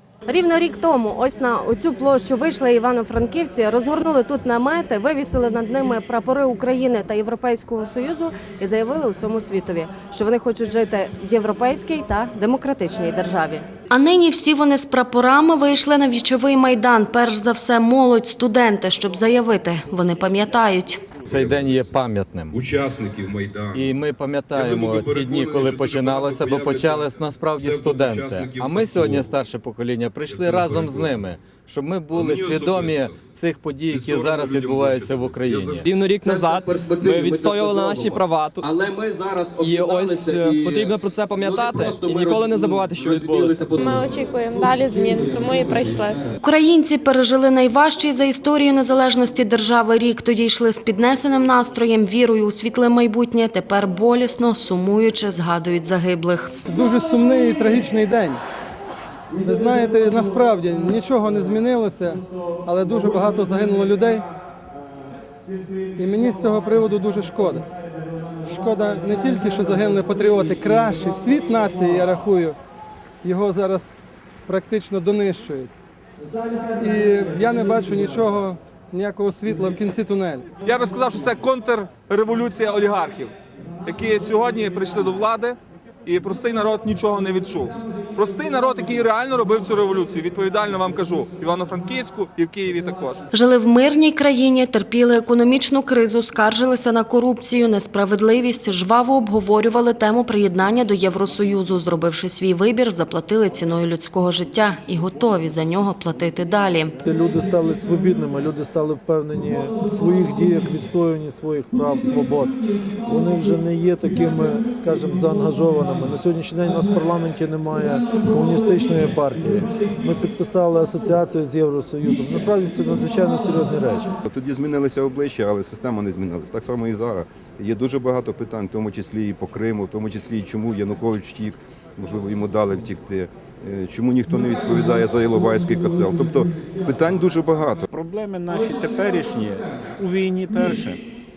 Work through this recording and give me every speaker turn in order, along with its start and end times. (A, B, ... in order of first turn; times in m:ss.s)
0:00.3-0:21.0 A
0:21.2-0:21.9 B
0:21.3-0:22.6 C
0:22.5-0:23.9 B
0:23.7-0:35.9 C
0:24.5-0:29.3 B
0:30.3-0:31.1 B
0:32.1-0:33.2 B
0:33.9-0:35.9 B
0:35.8-0:38.7 D
0:36.2-0:44.0 E
0:39.6-0:43.6 D
0:43.7-0:46.2 F
0:46.4-0:56.5 A
0:56.7-0:58.4 G
0:59.4-1:04.2 G
1:06.0-1:07.6 G
1:08.4-1:12.6 G
1:13.2-1:15.7 G
1:16.8-1:20.5 G
1:20.7-1:23.3 H
1:23.9-1:33.2 H
1:33.3-1:47.0 A
1:47.0-1:52.6 I
1:53.1-2:04.1 I
2:04.2-2:17.9 B
2:17.9-2:21.0 J